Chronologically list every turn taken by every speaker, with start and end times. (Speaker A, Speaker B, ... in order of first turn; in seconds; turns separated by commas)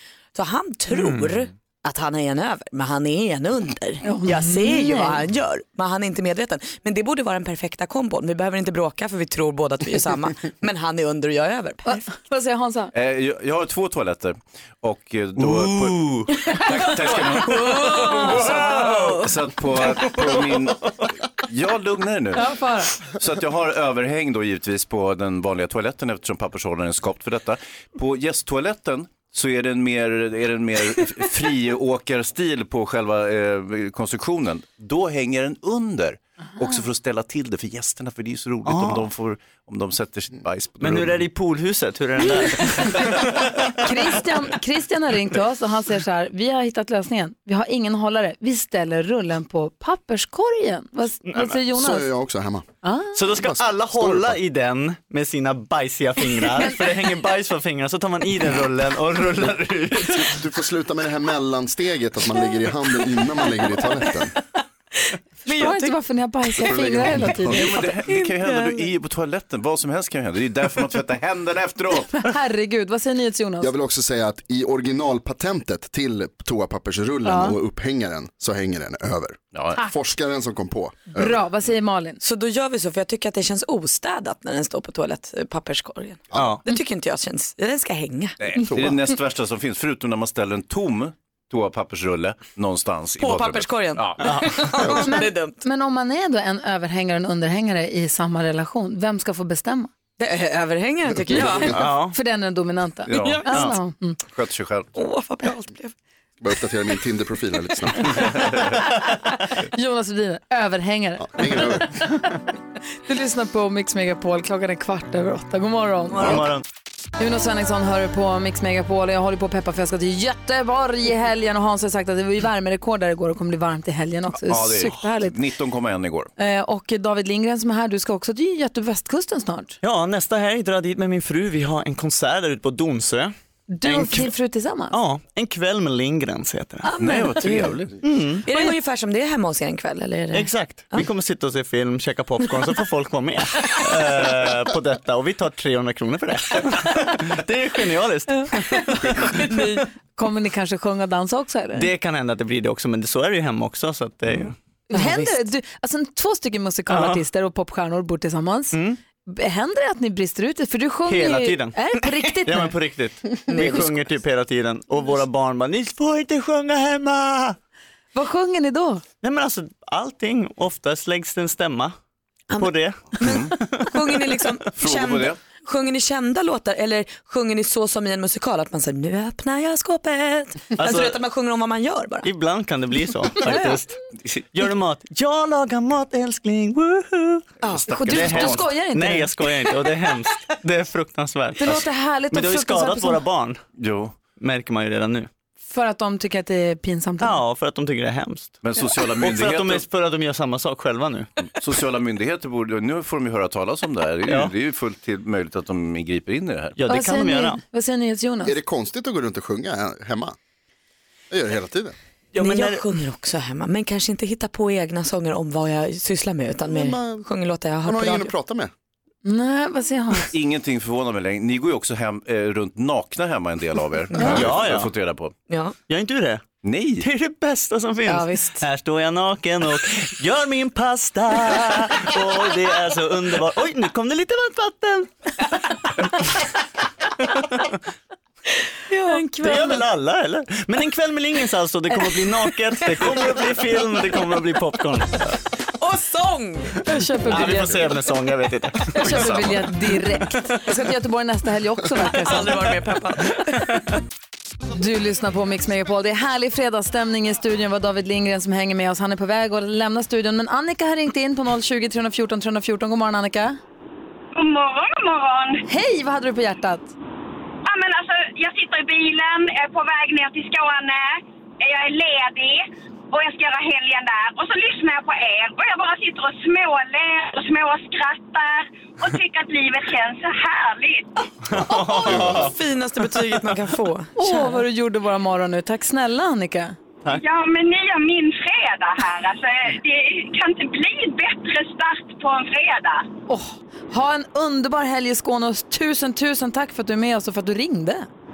Speaker A: 0.3-12.1, Speaker B: 4.0-5.2, Speaker B: 11.9-12.9, Speaker C: 12.9-22.5, Speaker D: 15.4-16.3, Speaker A: 17.4-19.1, Speaker D: 18.7-19.1, Speaker B: 22.3-22.9, Speaker C: 23.1-41.3, Speaker D: 38.6-39.1, Speaker D: 40.8-43.4, Speaker B: 43.8-52.1, Speaker E: 51.6-52.7, Speaker B: 52.8-53.2, Speaker D: 53.1-60.4, Speaker E: 54.0-54.3, Speaker E: 60.1-64.3, Speaker B: 65.5-67.9, Speaker A: 65.5-65.9, Speaker E: 66.6-67.7, Speaker C: 67.5-72.2, Speaker A: 68.1-68.7, Speaker B: 72.1-73.7, Speaker E: 73.6-81.3, Speaker B: 77.3-77.6, Speaker C: 79.5-79.8, Speaker B: 81.1-82.2, Speaker A: 82.2-88.4, Speaker D: 86.3-86.6, Speaker C: 88.4-94.7, Speaker A: 93.2-95.6, Speaker B: 94.9-99.9, Speaker A: 100.2-101.8, Speaker E: 101.3-101.7, Speaker D: 101.7-102.2, Speaker B: 102.1-104.2, Speaker C: 103.1-104.9, Speaker A: 103.1-103.4, Speaker A: 105.0-105.9, Speaker E: 106.4-108.2, Speaker B: 109.7-112.4, Speaker E: 111.2-112.0, Speaker B: 113.1-116.4, Speaker D: 116.2-116.6, Speaker B: 117.2-125.4, Speaker C: 124.4-126.3, Speaker B: 126.4-129.8, Speaker D: 129.8-133.3, Speaker B: 133.7-135.0, Speaker D: 133.8-134.3, Speaker D: 134.9-136.9, Speaker A: 136.9-137.8, Speaker C: 137.0-138.0, Speaker D: 138.0-138.5, Speaker A: 138.5-141.1, Speaker D: 140.3-148.8, Speaker B: 149.3-149.6, Speaker A: 149.5-149.8, Speaker B: 150.2-151.9, Speaker D: 151.8-154.5, Speaker B: 154.9-162.7, Speaker A: 154.9-155.3, Speaker D: 156.9-157.2, Speaker D: 158.7-159.0, Speaker D: 161.1-161.8, Speaker D: 162.4-167.6, Speaker A: 163.4-164.0, Speaker B: 168.1-169.0, Speaker D: 169.2-171.9, Speaker A: 172.5-182.3, Speaker D: 172.6-173.2, Speaker C: 173.2-173.6, Speaker C: 174.8-175.4, Speaker D: 180.8-181.2, Speaker D: 182.2-187.5, Speaker A: 187.6-187.9, Speaker C: 187.6-188.7, Speaker B: 187.9-189.3, Speaker D: 188.1-193.6, Speaker B: 191.6-193.2, Speaker C: 193.8-194.2, Speaker D: 194.4-195.3, Speaker B: 195.7-197.4, Speaker D: 197.2-198.6, Speaker C: 198.6-199.8, Speaker D: 199.2-201.3, Speaker C: 201.6-206.8, Speaker D: 204.2-204.5, Speaker D: 206.8-207.6, Speaker B: 206.9-208.6, Speaker E: 208.4-210.4, Speaker E: 211.3-211.9, Speaker D: 212.3-212.8, Speaker A: 212.4-218.3, Speaker E: 216.7-217.3, Speaker E: 217.8-218.7, Speaker B: 219.2-220.3, Speaker C: 220.3-225.3, Speaker D: 224.3-224.9, Speaker A: 225.5-225.7, Speaker D: 225.9-226.5, Speaker C: 226.6-227.1, Speaker D: 227.0-235.2, Speaker A: 228.1-228.7, Speaker A: 238.9-239.3, Speaker B: 239.1-239.6, Speaker D: 239.4-245.2, Speaker A: 245.8-246.8, Speaker B: 246.9-247.9, Speaker D: 247.3-249.3, Speaker B: 248.9-252.7, Speaker C: 249.2-249.5, Speaker A: 252.1-253.6, Speaker B: 254.7-263.6, Speaker F: 264.4-265.6, Speaker B: 265.7-266.9, Speaker F: 267.7-281.1, Speaker D: 281.5-282.6, Speaker A: 281.7-284.6, Speaker E: 282.1-282.5, Speaker D: 283.1-283.5, Speaker B: 284.2-286.8, Speaker F: 287.1-293.1, Speaker B: 293.3-298.1